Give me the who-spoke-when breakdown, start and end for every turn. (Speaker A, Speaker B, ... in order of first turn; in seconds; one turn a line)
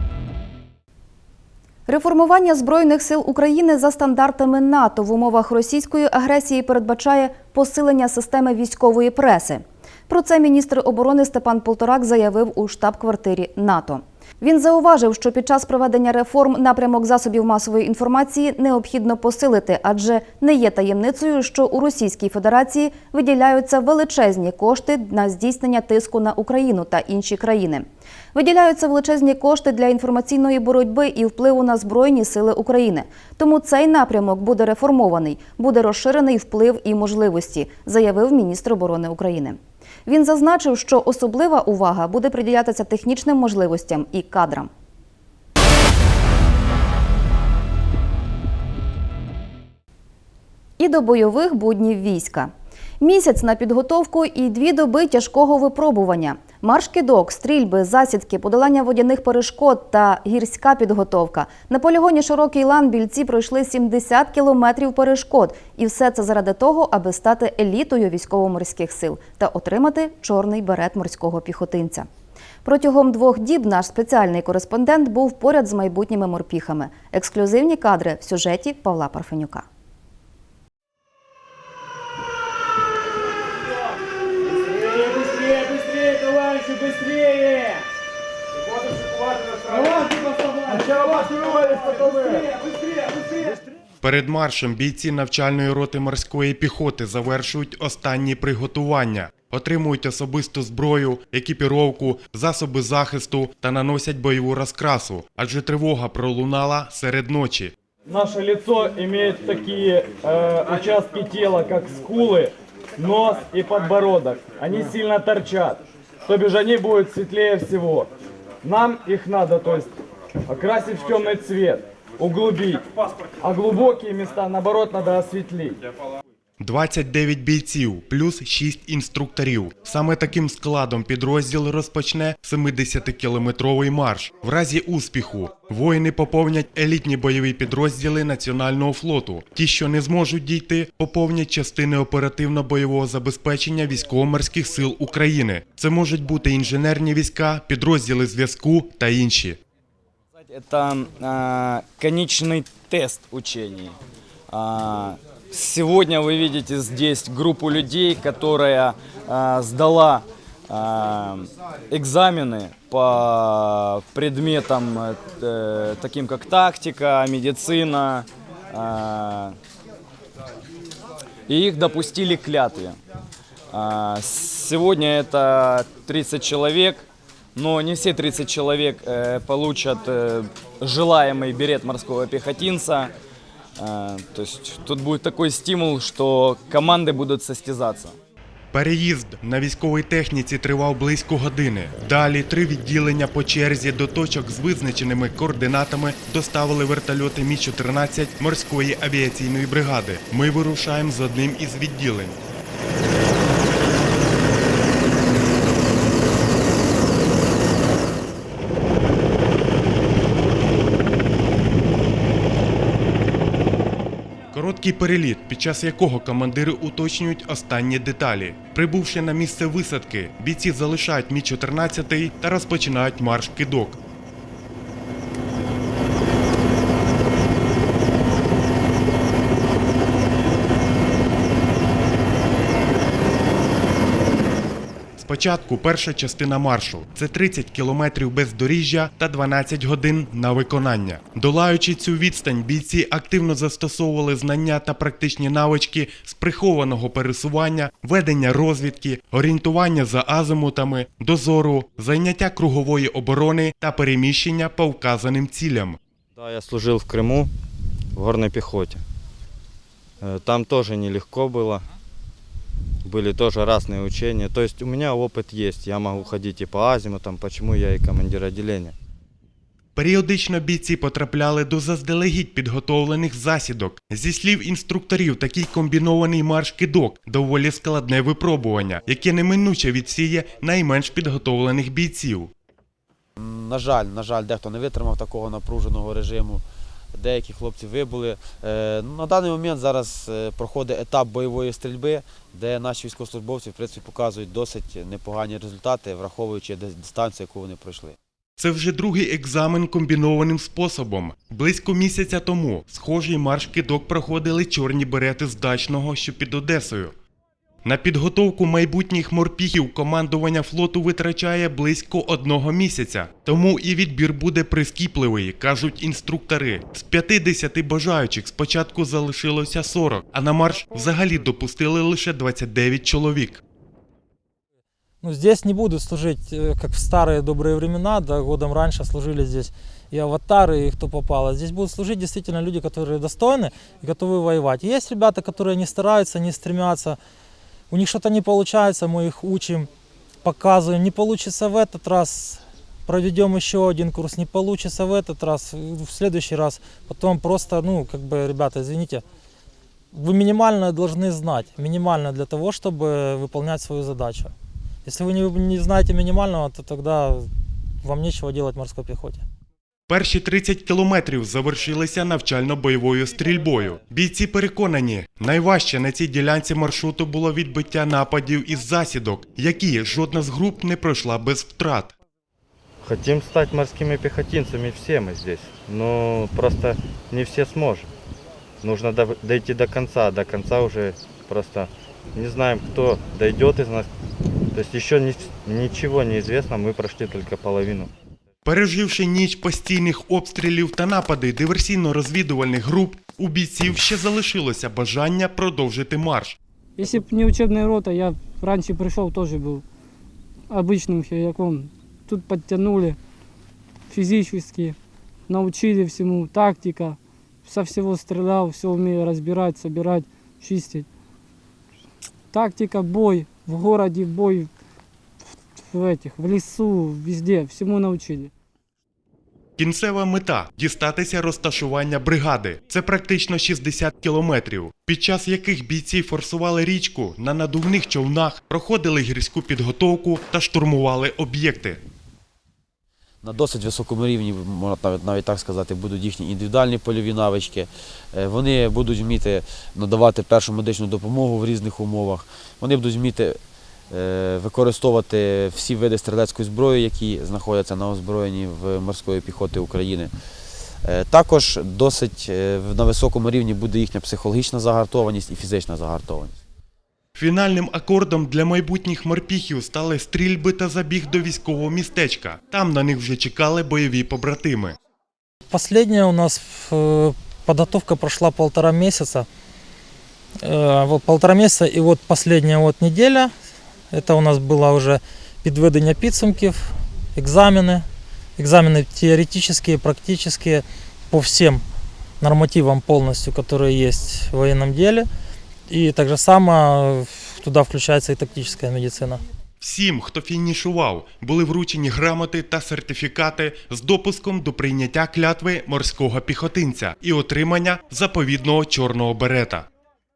Speaker A: 1.9-44.7
Speaker A: 50.8-72.1
Speaker A: 72.6-79.6
Speaker B: 84.7-87.6
Speaker B: 89.5-92.5
Speaker C: 94.0-107.7
Speaker B: 108.1-118.1
Speaker B: 118.6-119.9
Speaker B: 120.5-122.9
Speaker B: 123.4-125.8
Speaker C: 126.6-149.6
Speaker D: 150.5-153.9
Speaker D: 154.5-169.5
Speaker D: 171.5-173.0
Speaker D: 173.7-177.0
Speaker D: 177.6-183.1
Speaker D: 183.8-188.2
Speaker C: 188.7-202.3
Speaker C: 214.5-224.0
Speaker C: 235.2-256.0
Speaker E: 256.4-257.5
Speaker E: 258.1-259.0
Speaker E: 260.2-261.8
Speaker E: 263.0-268.9
Speaker C: 269.9-282.5
Speaker F: 283.4-286.6
Speaker F: 287.1-298.2
Speaker C: 298.6-307.1
Speaker C: 307.8-323.6
Speaker G: 325.2-337.2
Speaker G: 337.9-339.9
Speaker G: 340.4-349.2
Speaker G: 350.1-354.5
Speaker G: 355.0-357.5
Speaker G: 358.0-359.4
Speaker C: 360.1-372.1
Speaker E: 373.0-378.1
Speaker E: 378.8-384.1
Speaker E: 384.7-388.1
Speaker C: 388.6-396.6
Speaker H: 397.0-399.8
Speaker H: 400.7-403.2
Speaker H: 404.1-405.0
Speaker H: 405.5-411.1
Speaker H: 412.5-414.7
Speaker H: 415.8-418.5
Speaker C: 419.8-432.0
Speaker F: 433.4-443.6
Speaker F: 444.1-450.3
Speaker F: 451.0-456.6
Speaker C: 457.4-464.9
Speaker G: 465.7-469.5
Speaker G: 470.6-473.5
Speaker G: 474.1-478.0
Speaker G: 478.6-481.8
Speaker G: 482.4-485.3
Speaker G: 485.9-489.4
Speaker C: 489.8-499.9